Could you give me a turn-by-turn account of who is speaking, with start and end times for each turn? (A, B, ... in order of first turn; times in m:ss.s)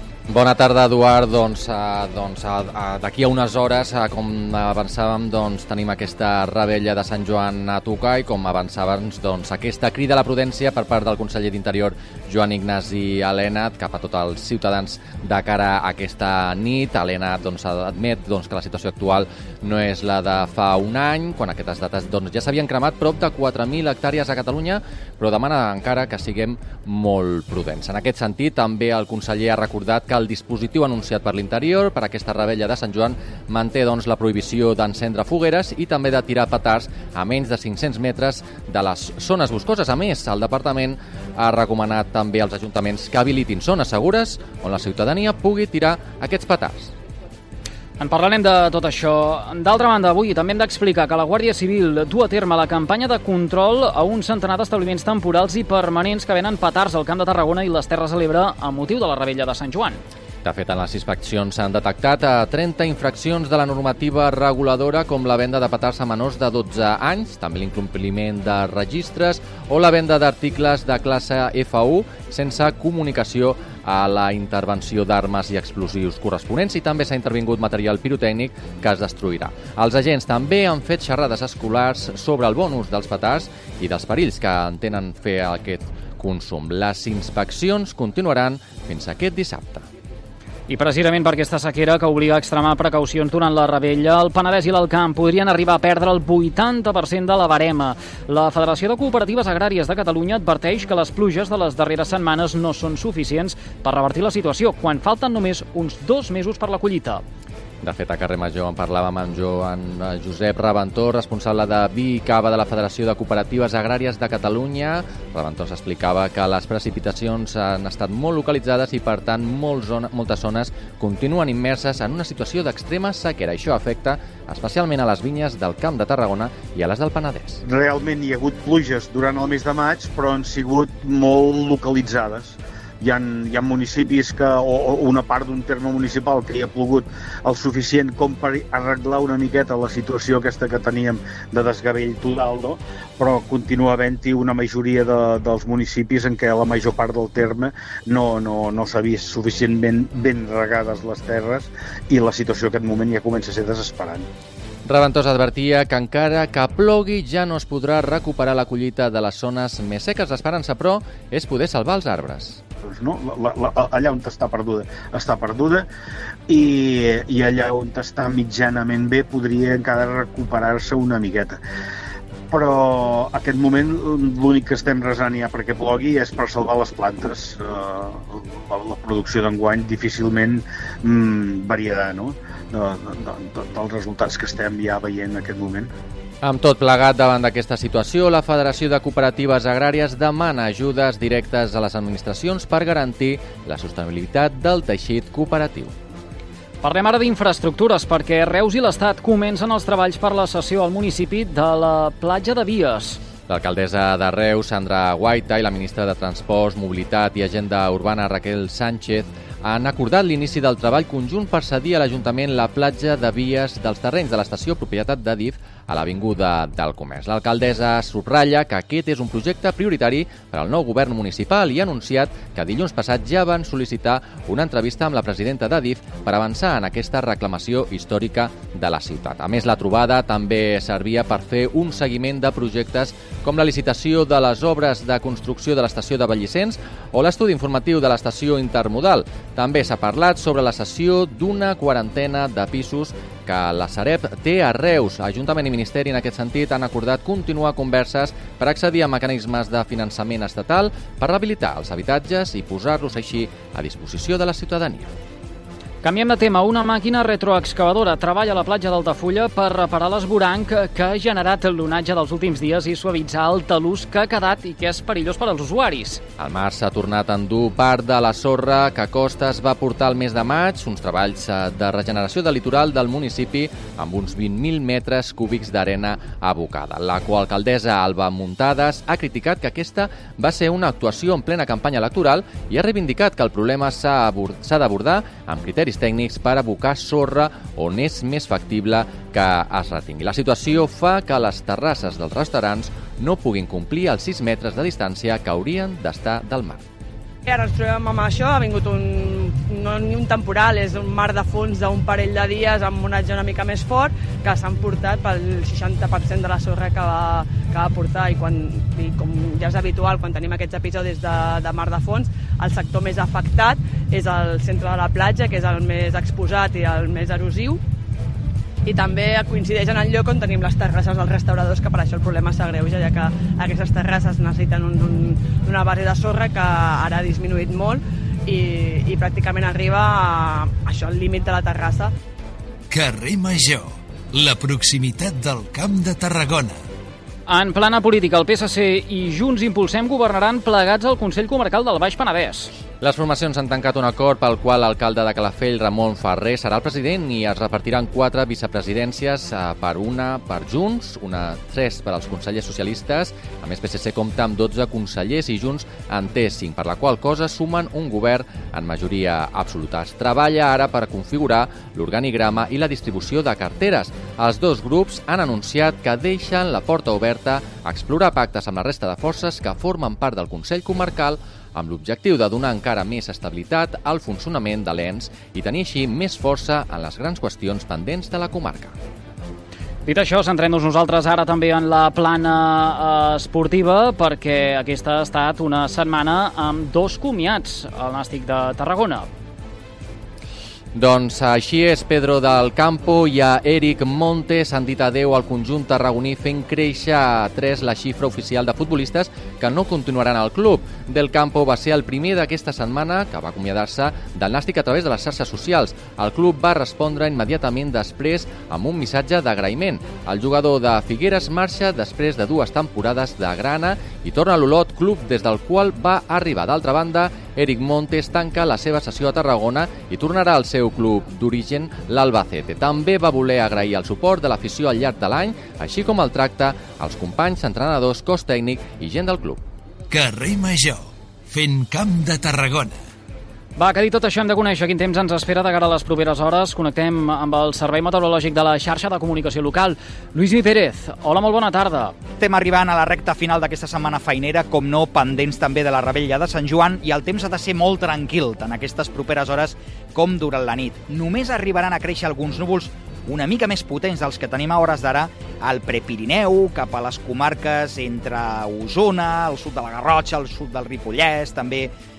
0:00.3-0:46.9 A
0:48.0-1:00.0 B
1:00.4-1:29.9 A
1:30.7-1:47.2 B
1:47.8-2:07.6 A
2:07.7-2:34.3 C
2:34.9-2:42.6 A
2:42.9-2:45.9 C
2:46.5-2:51.6 C
2:52.5-3:05.9 C
3:06.4-3:15.9 A
3:16.8-3:23.2 B
3:23.5-4:15.1 A
4:16.0-4:26.2 B
4:26.4-4:56.8 A
4:57.4-5:17.8 D
5:18.8-5:32.1 D
5:32.9-5:36.8 E
5:37.5-5:42.7 B
5:43.0-6:18.9 A
6:20.1-6:29.3 B
6:30.9-7:09.6 A
7:10.1-7:13.0 E
7:13.8-7:22.1 B
7:22.4-7:41.9 F